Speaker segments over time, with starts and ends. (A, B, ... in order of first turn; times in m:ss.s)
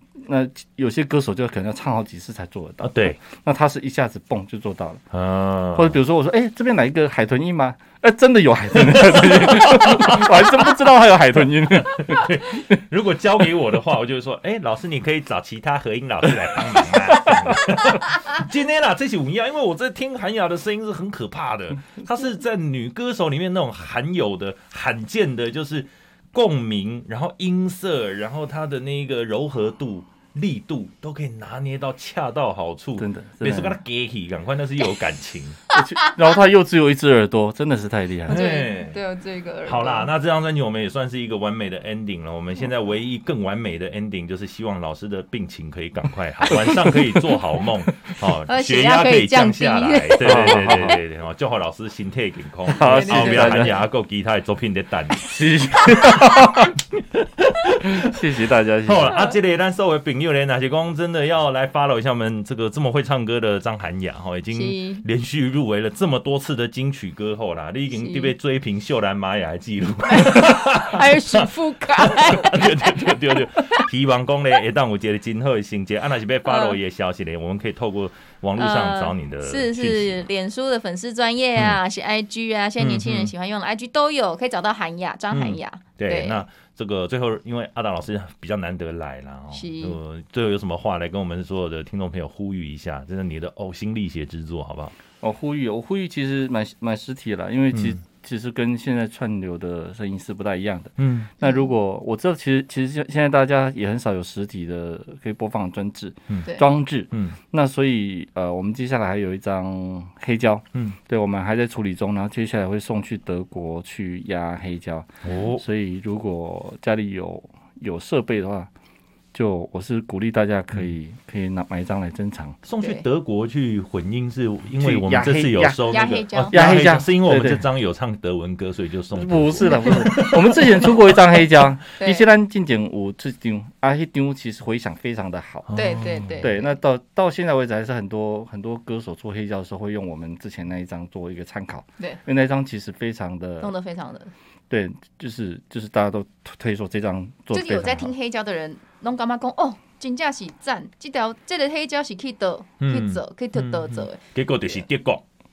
0:00.2-0:05.0 A
0:02.8-0:03.2 B
0:05.1-0:06.0 B
0:05.7-0:12.4 A
0:08.8-0:10.5 B
0:11.9-0:35.6 B
0:33.0-0:33.8 A
0:35.7-0:38.4 A
0:38.3-0:39.0 B
0:38.3-0:40.1 C
0:39.7-0:58.2 B
0:46.5-0:47.4 A
0:48.4-0:51.0 C
0:50.2-0:51.0 A
0:52.7-0:53.8 A
0:52.7-0:53.8 C
0:55.2-0:56.7 A
0:57.8-0:59.2 A
0:58.8-1:20.2 B
0:59.0-0:59.3 C
1:04.5-1:05.0 C
1:07.9-1:08.3 C
1:10.0-1:13.9 C
1:16.4-1:16.8 C
1:18.6-1:26.4 C
1:22.8-1:23.3 B
1:25.3-1:35.0 B
1:29.5-1:30.0 C
1:35.2-1:58.7 A
1:37.7-1:38.0 B
1:41.0-1:41.3 B
1:41.4-1:41.7 C
1:55.2-1:55.6 B
1:59.3-2:02.6 A
2:02.6-2:11.0 B
2:02.8-2:03.0 C
2:04.7-2:07.6 A
2:05.9-2:06.6 C
2:09.1-2:15.7 A
2:12.0-2:12.2 C
2:15.7-2:16.5 B
2:15.7-2:16.7 C
2:16.4-2:23.7 A
2:23.6-2:24.3 C
2:24.7-2:28.1 A
2:27.5-2:34.2 C
2:32.8-2:35.2 B